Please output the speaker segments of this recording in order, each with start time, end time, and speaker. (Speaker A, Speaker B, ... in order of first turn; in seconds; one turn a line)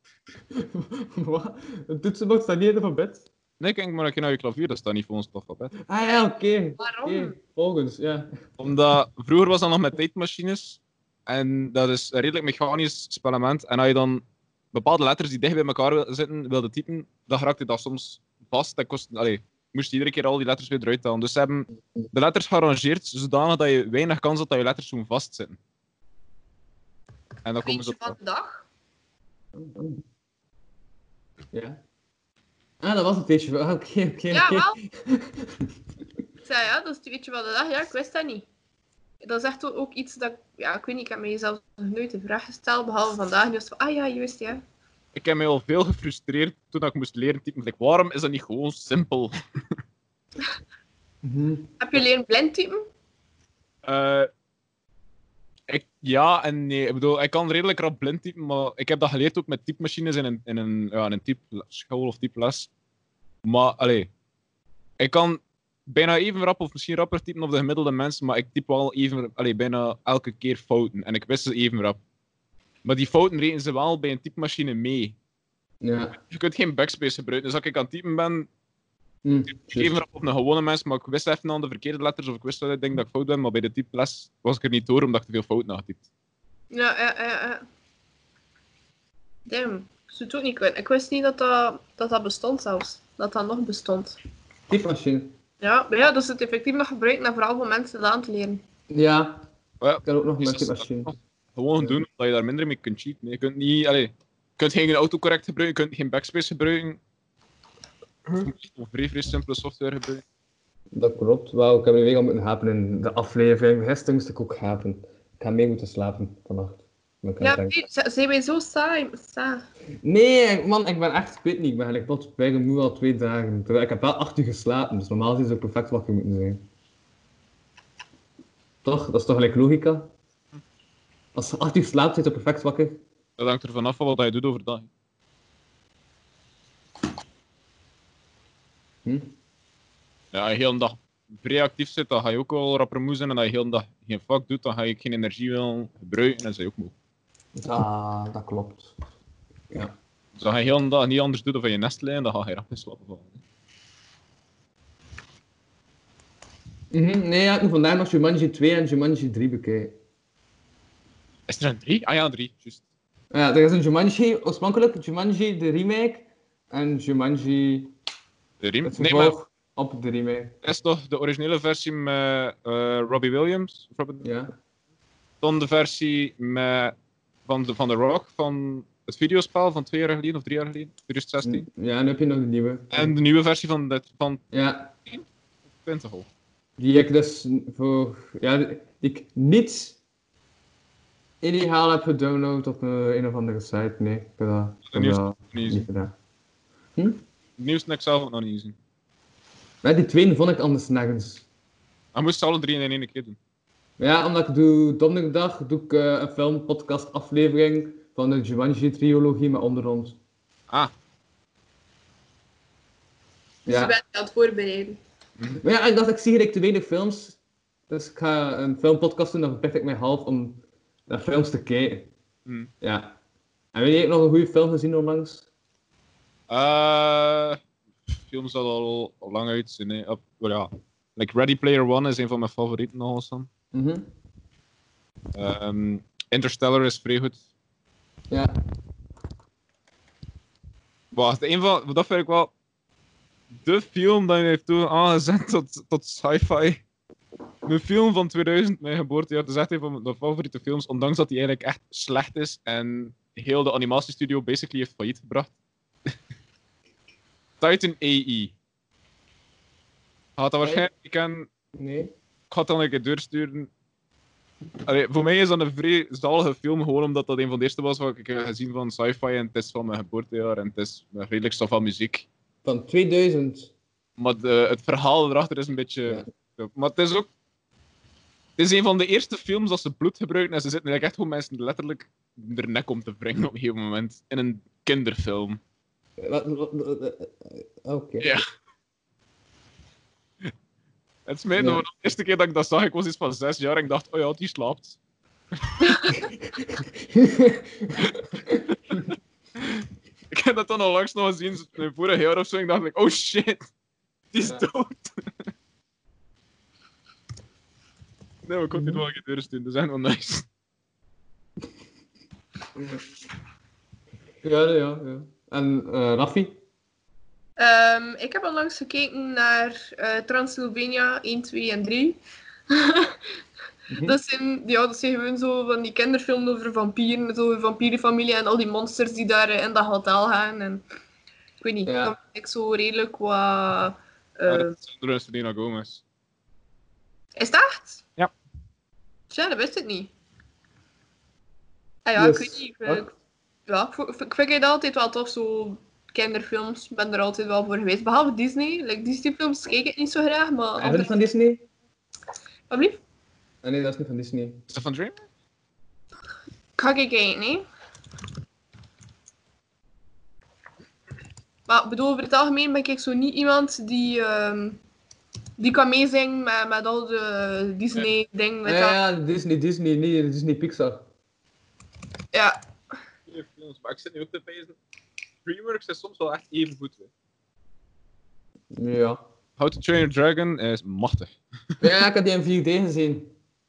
Speaker A: 0.5-3.2
Speaker B: 3.6-5.8
Speaker A: 5.8-8.3
Speaker C: 6.8-7.3
Speaker B: 8.6-25.6
Speaker B: 27.4-28.1
Speaker C: 27.6-28.6
Speaker A: 29.5-30.0
Speaker A: 31.5-31.8
Speaker A: 32.8-35.7
Speaker C: 34.3-34.8
Speaker C: 36.4-38.5
Speaker C: 39.2-44.6
Speaker B: 45.1-49.3
Speaker A: 51.2-51.7
Speaker C: 51.8-52.8
Speaker B: 53.8-54.3
Speaker B: 55.7-62.7
Speaker B: 63.4-64.1
Speaker B: 65.0-72.0
Speaker B: 72.8-75.1
Speaker A: 75.8-76.2
Speaker B: 76.3-78.5
Speaker A: 79.2-80.0
Speaker B: 79.6-86.0
Speaker C: 86.7-87.6
Speaker C: 89.5-94.2
Speaker A: 94.7-95.3
Speaker C: 95.6-98.6
Speaker A: 98.9-99.5
Speaker B: 99.8-107.0
Speaker A: 100.0-101.1
Speaker B: 108.4-110.2
Speaker A: 110.9-117.8
Speaker C: 117.4-119.6
Speaker A: 120.0-126.7
Speaker A: 128.8-130.1
Speaker A: 131.3-133.0
Speaker B: 133.4-134.9
Speaker A: 139.0-139.3
Speaker B: 140.3-146.9
Speaker A: 147.5-148.9
Speaker B: 150.3-153.4
Speaker A: 156.9-160.0
Speaker B: 161.5-162.8
Speaker A: 163.3-167.9
Speaker B: 168.6-169.3
Speaker A: 168.8-170.5
Speaker B: 170.6-174.2
Speaker A: 174.2-174.5
Speaker B: 175.4-176.9
Speaker B: 177.5-181.6
Speaker A: 181.4-183.1
Speaker B: 182.9-184.4
Speaker A: 184.5-184.9
Speaker B: 185.8-186.2
Speaker A: 186.8-190.0
Speaker A: 191.4-196.1
Speaker B: 194.9-195.8
Speaker A: 196.9-197.2
Speaker B: 197.6-198.8
Speaker A: 199.8-201.4
Speaker B: 202.1-203.4
Speaker A: 204.0-210.2
Speaker A: 213.7-213.9
Speaker C: 213.7-215.0
Speaker A: 215.6-217.4
Speaker A: 217.9-222.1
Speaker A: 222.8-223.2
Speaker A: 223.7-225.5
Speaker B: 226.5-227.6
Speaker B: 228.1-233.5
Speaker A: 233.7-234.1
Speaker B: 235.3-237.4
Speaker B: 241.1-242.5
Speaker B: 243.6-246.8
Speaker B: 247.6-255.5
Speaker B: 257.6-258.5
Speaker B: 260.4-261.5
Speaker A: 260.6-260.9
Speaker A: 261.8-262.1
Speaker B: 262.5-263.7
Speaker B: 264.8-272.3
Speaker A: 272.6-273.7
Speaker B: 274.2-277.3
Speaker B: 278.6-285.6
Speaker A: 286.2-288.3
Speaker B: 291.3-295.0
Speaker A: 291.6-291.8
Speaker B: 295.6-296.2
Speaker A: 297.0-298.6
Speaker B: 299.6-303.6
Speaker B: 304.3-305.1
Speaker B: 308.4-310.4
Speaker A: 308.7-309.0
Speaker A: 312.8-313.0
Speaker A: 314.4-316.6
Speaker C: 317.6-322.2
Speaker C: 322.7-323.3
Speaker A: 323.9-324.2
Speaker C: 324.0-330.8
Speaker C: 331.6-334.7
Speaker A: 331.8-332.1
Speaker B: 334.5-336.0
Speaker C: 337.4-338.0
Speaker C: 339.3-340.1
Speaker C: 342.1-343.1
Speaker A: 342.2-342.6
Speaker C: 343.7-351.2
Speaker A: 350.8-351.6
Speaker C: 352.7-353.0
Speaker A: 353.6-354.6
Speaker B: 354.7-355.2
Speaker C: 356.8-357.6
Speaker C: 361.7-364.8
Speaker C: 365.6-369.0
Speaker A: 368.6-371.0
Speaker B: 373.3-374.7
Speaker B: 375.4-377.1
Speaker A: 378.7-379.2
Speaker B: 379.6-381.3
Speaker A: 381.8-383.3